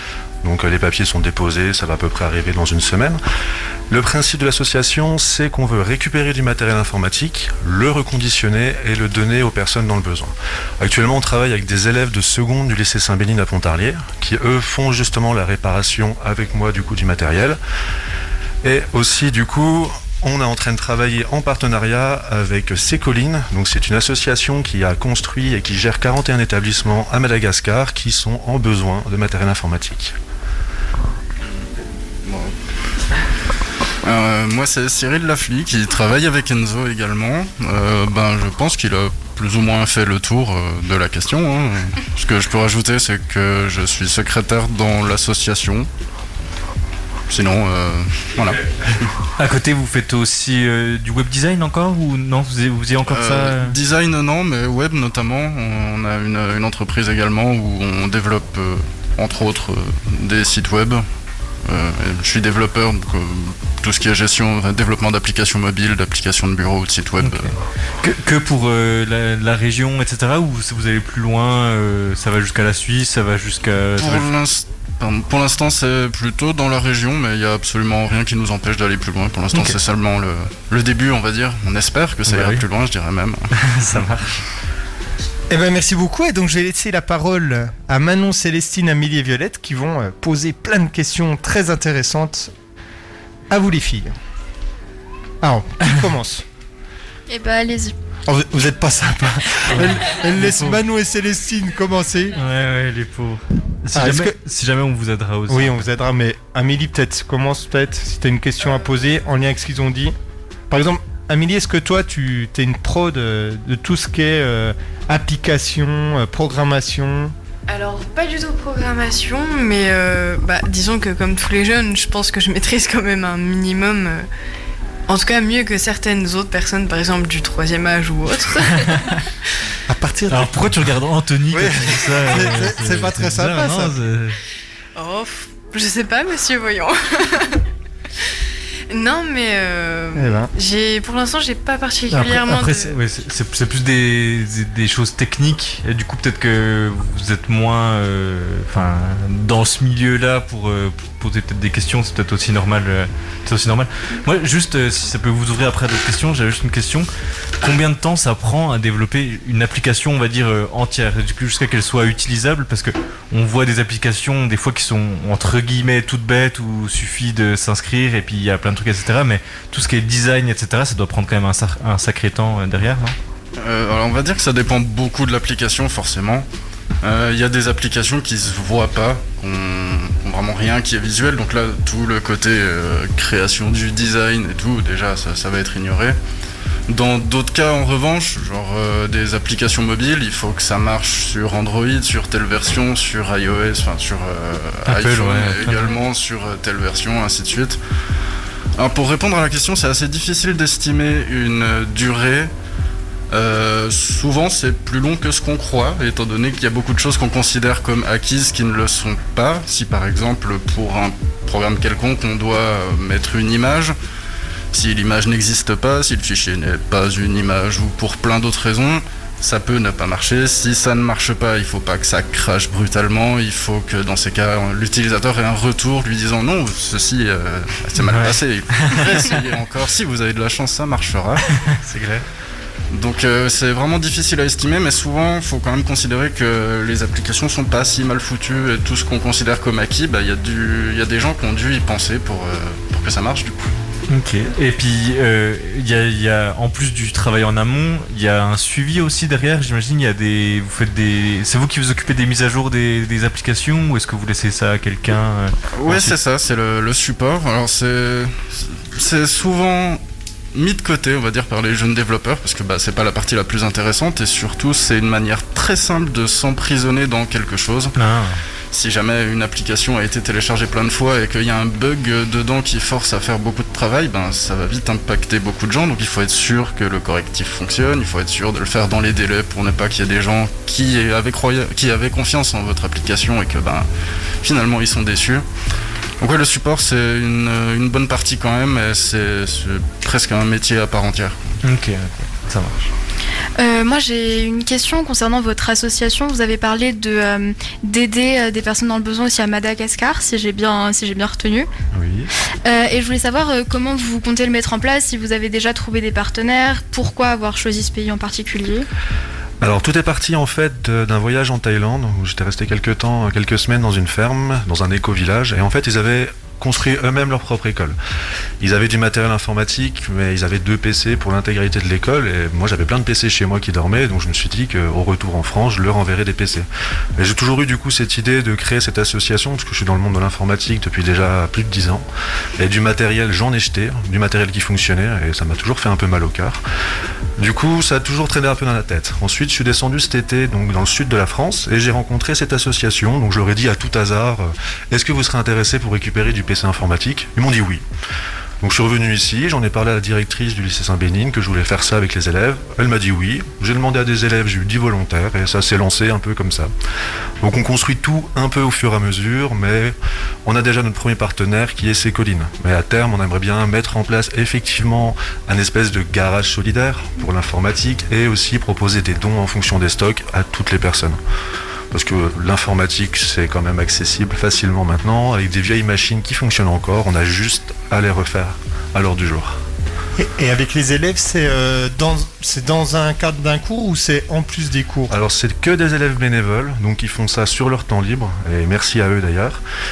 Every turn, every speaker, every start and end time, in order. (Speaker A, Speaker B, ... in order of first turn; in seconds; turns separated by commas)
Speaker A: 0.4-3.2, Speaker A: 3.9-17.6, Speaker A: 18.6-30.1, Speaker B: 32.2-32.5, Speaker B: 34.0-45.9, Speaker B: 47.3-49.1, Speaker C: 49.4-53.8, Speaker B: 53.1-61.1, Speaker B: 61.6-67.5, Speaker C: 67.2-74.3, Speaker B: 74.0-83.5, Speaker C: 79.5-79.8, Speaker C: 82.3-82.7, Speaker C: 83.5-84.4, Speaker D: 85.5-92.5, Speaker D: 93.5-94.1, Speaker D: 95.4-96.5, Speaker E: 97.3-98.0, Speaker D: 98.3-102.4, Speaker C: 99.7-100.8, Speaker C: 102.4-105.8, Speaker D: 103.9-104.4, Speaker D: 105.5-110.2, Speaker D: 110.7-117.3, Speaker F: 117.7-124.3, Speaker F: 125.1-129.1, Speaker D: 129.9-130.9, Speaker C: 130.3-134.4, Speaker D: 131.5-134.0, Speaker F: 135.0-137.6, Speaker F: 138.9-143.0, Speaker D: 140.1-140.5, Speaker C: 142.1-157.1, Speaker D: 142.3-142.6, Speaker C: 157.6-173.2, Speaker B: 173.6-176.5, Speaker B: 177.0-186.2, Speaker B: 186.9-197.8, Speaker C: 194.8-196.0, Speaker B: 198.8-202.5, Speaker B: 203.3-213.9, Speaker B: 214.7-231.5, Speaker C: 228.0-229.3, Speaker C: 231.6-232.2, Speaker B: 232.9-243.7, Speaker C: 244.1-256.2, Speaker B: 255.8-260.0, Speaker B: 260.5-268.0, Speaker C: 268.0-268.4, Speaker B: 268.7-283.9, Speaker B: 284.4-285.5, Speaker B: 286.2-291.4, Speaker C: 291.6-292.9, Speaker E: 293.6-301.7, Speaker A: 301.9-302.3, Speaker E: 302.6-308.9, Speaker A: 309.6-318.0, Speaker A: 318.6-332.1, Speaker A: 332.6-336.6, Speaker A: 337.4-347.8, Speaker A: 348.6-356.7, Speaker A: 357.4-371.2, Speaker A: 371.9-379.6, Speaker D: 380.2-385.1, Speaker A: 385.1-389.6